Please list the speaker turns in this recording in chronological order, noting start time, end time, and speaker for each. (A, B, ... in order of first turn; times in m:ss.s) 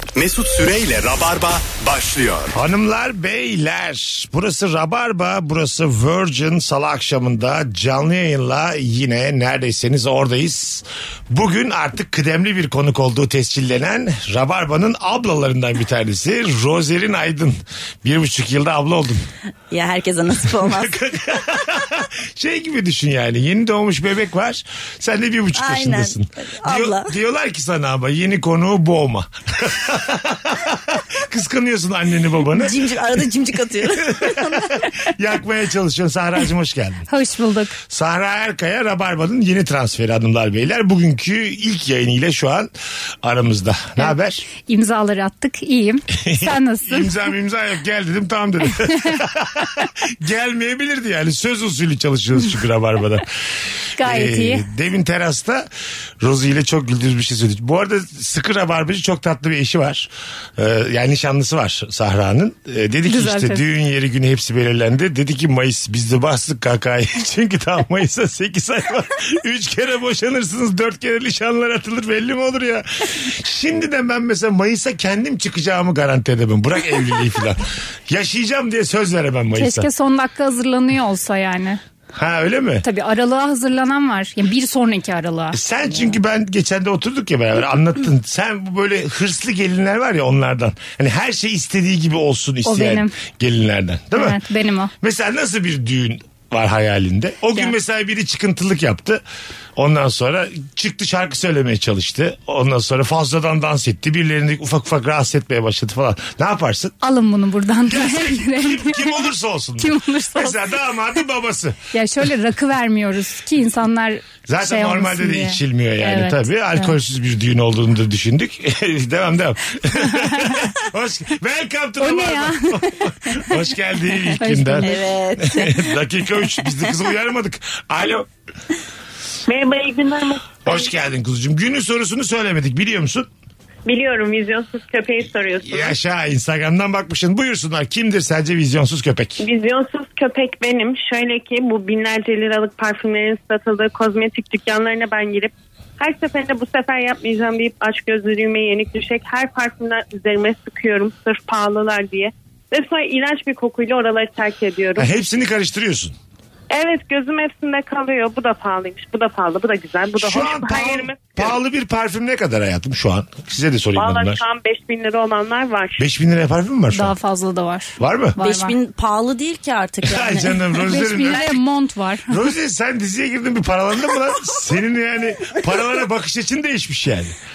0:00.1-0:02.5 A
0:02.5-0:19.2 B
0:19.7-0:20.9 C
0:20.5-0:32.9 B
0:25.5-0:27.1 C
0:32.6-0:34.8 C
0:34.0-0:37.1 B
0:37.1-0:37.8 D
0:37.9-0:42.7 B
0:43.2-0:44.5 B
0:44.0-0:47.2 D
0:46.2-0:53.3 B
0:53.9-0:55.7 B
0:54.0-0:54.7 D
0:56.2-1:19.9 B
1:03.0-1:03.6 D
1:19.5-1:21.8 D
1:22.1-1:22.8 B
1:22.8-1:25.6 D
1:25.5-1:34.4 B
1:32.6-1:33.1 D
1:34.1-1:34.9 D
1:35.0-1:39.2 B
1:39.8-1:46.9 B
1:47.0-1:50.6 D
1:47.8-1:51.8 B
1:51.9-1:56.9 D
1:54.5-2:08.3 B
2:00.0-2:00.7 D
2:02.0-2:03.1 D
2:04.4-2:04.9 D
2:04.8-2:05.8 C
2:09.5-2:10.8 E
2:10.6-2:13.3 B
2:13.8-2:16.0 E
2:15.6-2:19.4 B
2:19.4-2:35.1 E
2:35.0-2:36.2 B
2:36.7-2:41.4 E
2:40.2-2:44.4 B
2:43.9-2:46.0 E
2:46.0-2:47.1 B
2:46.9-2:48.7 D
2:48.0-2:48.4 B
2:48.4-2:51.4 C
2:50.0-2:51.6 B
2:50.9-2:52.4 D
2:52.3-2:57.4 B